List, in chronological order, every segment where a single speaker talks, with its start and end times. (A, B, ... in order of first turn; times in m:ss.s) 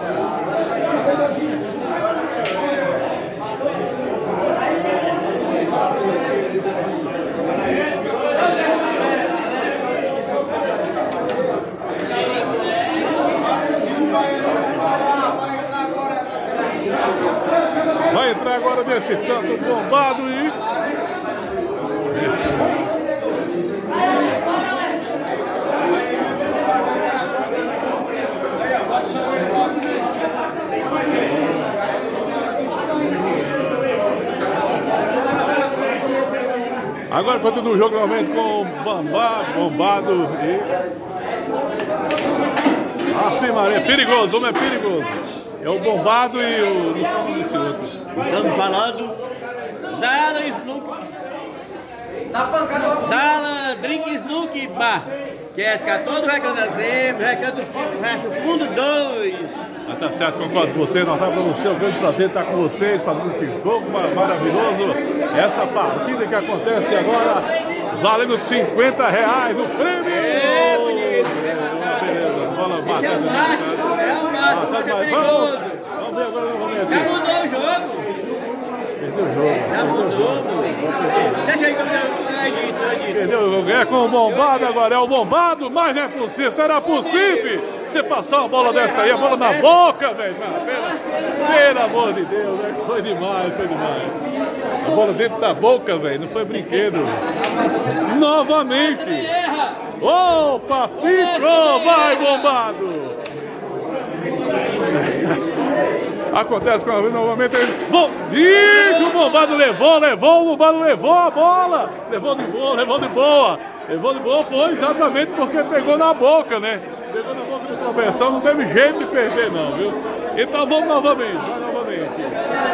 0:18.0-0:20.6 A
0:37.1-0:40.7 A
0:43.1-0:48.0 A
0:48.1-0:49.2 B
0:49.9-0:51.0 B
0:52.8-0:59.6 B
0:59.9-1:17.1 A
1:10.0-1:11.9 B
1:12.8-1:15.8 B
1:16.9-1:18.1 B
1:19.0-1:20.4 A
1:19.7-1:23.3 B
1:23.1-1:34.2 A
1:28.7-1:29.7 B
1:30.8-1:31.4 B
1:34.8-1:37.2 A
1:37.9-1:39.3 A
1:39.0-1:39.9 B
1:40.0-1:43.2 A
1:41.2-1:42.3 B
1:44.8-1:45.7 A
1:46.3-2:02.4 A